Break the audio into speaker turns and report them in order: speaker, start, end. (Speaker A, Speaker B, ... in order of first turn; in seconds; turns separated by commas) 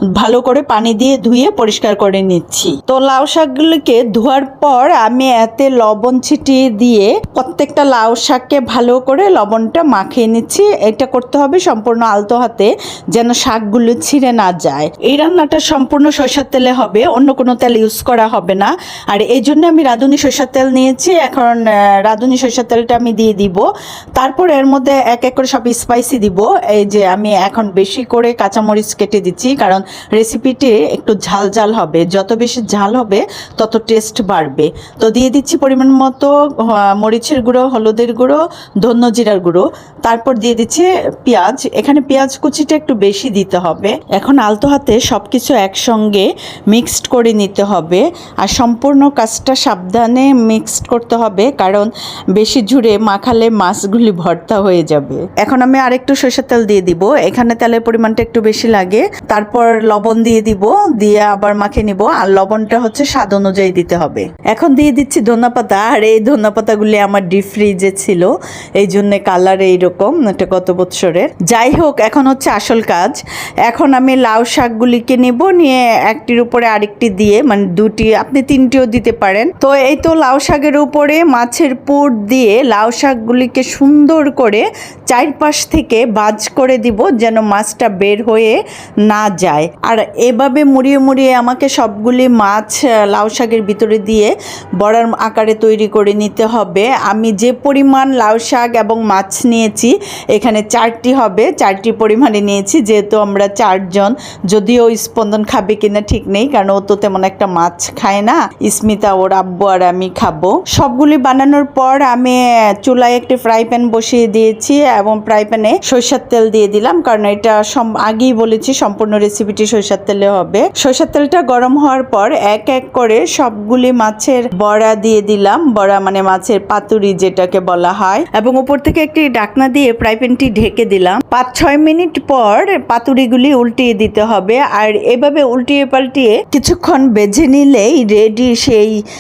Speaker A: 0.2-23.6, Speaker A: 24.2-139.0